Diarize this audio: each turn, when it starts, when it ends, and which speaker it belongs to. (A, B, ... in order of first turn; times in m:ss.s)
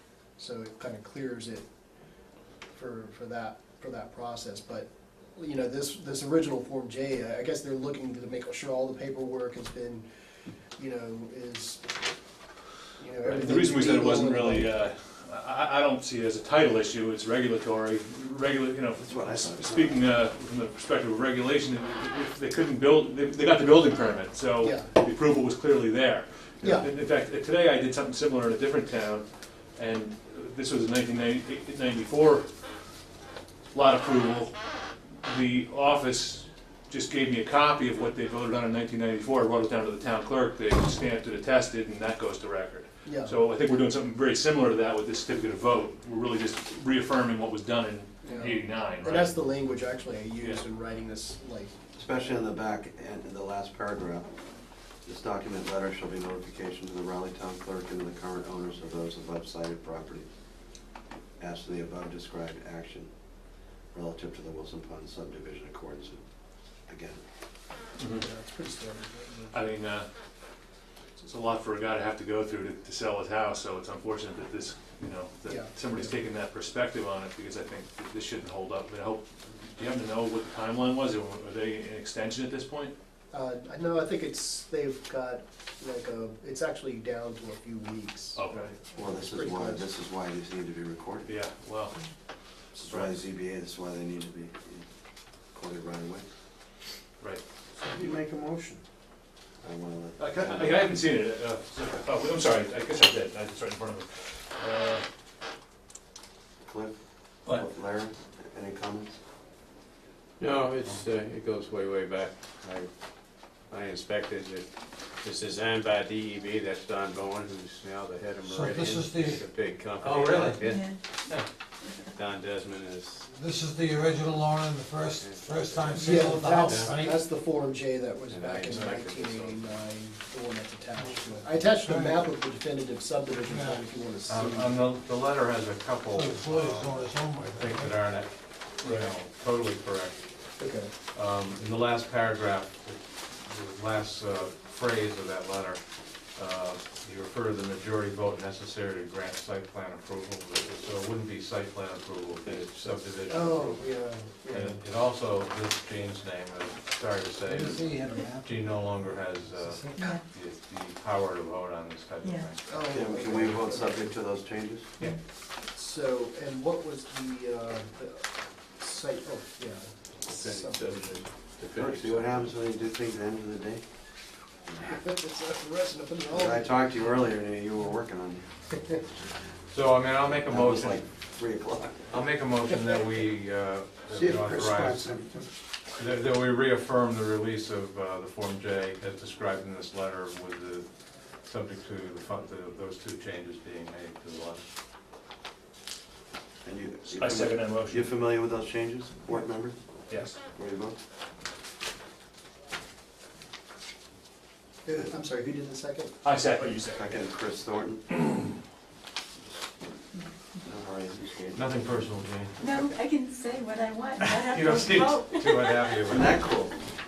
0:00.4-0:01.6 A
0:02.7-0:10.1 A
0:10.8-0:11.9 A
0:13.0-0:14.7 A
0:13.2-0:32.4 B
0:19.0-0:20.0 C
0:24.6-0:24.9 A
0:26.6-0:26.9 A
0:33.7-0:34.6 B
0:35.2-0:49.4 B
0:43.0-0:43.4 A
0:48.2-0:51.7 A
0:51.9-0:54.3 C
0:55.0-1:00.3 C
1:01.4-1:03.1 C
1:03.9-1:06.2 C
1:06.9-1:07.2 C
1:08.0-1:08.2 B
1:08.2-1:09.6 A
1:09.5-1:10.1 B
1:11.2-1:22.9 B
1:15.4-1:16.1 A
1:23.3-1:29.9 A
1:28.3-1:28.7 B
1:28.9-1:31.3 C
1:31.2-1:32.0 B
1:32.7-1:33.2 B
1:32.8-1:34.9 C
1:35.5-1:36.2 C
1:37.8-1:38.8 D
1:39.6-1:40.9 C
1:40.2-1:45.0 B
1:46.6-1:49.2 C
1:50.4-1:52.3 D
1:52.6-1:52.9 C
1:53.6-2:00.8 D
1:58.4-1:59.4 E
2:00.0-2:01.4 F
2:00.6-2:01.0 G
2:02.1-2:03.3 D
2:03.3-2:07.2 E
2:05.9-2:14.7 A
2:08.3-2:09.6 D
2:11.0-2:12.2 E
2:13.4-2:13.8 E
2:14.2-2:20.5 F
2:16.1-2:18.0 E
2:18.8-2:19.1 B
2:20.6-2:20.9 A
2:21.1-2:33.8 F
2:32.4-2:33.0 D
2:33.3-2:34.8 A
2:34.5-2:42.8 F
2:37.4-2:40.1 E
2:40.0-2:40.2 G
2:42.2-2:42.5 G
2:42.6-2:44.1 A
2:42.8-2:44.9 C
2:45.0-2:51.1 A
2:50.3-2:52.5 D
2:51.7-2:53.8 C
2:54.8-2:56.8 A
2:56.3-2:59.0 C
2:59.7-3:01.0 F
3:00.3-3:02.1 C
3:02.1-3:05.0 F
3:04.1-3:05.5 D
3:06.0-3:14.6 F
3:16.6-3:19.8 C
3:17.1-3:18.0 B
3:20.1-3:20.3 B
3:20.4-3:21.0 C
3:24.8-3:26.1 A
3:26.2-3:27.2 B
3:26.9-3:28.1 C
3:30.6-3:31.7 C
3:31.5-3:32.7 F
3:32.6-3:36.6 G
3:34.2-3:36.4 F
3:36.0-3:36.7 C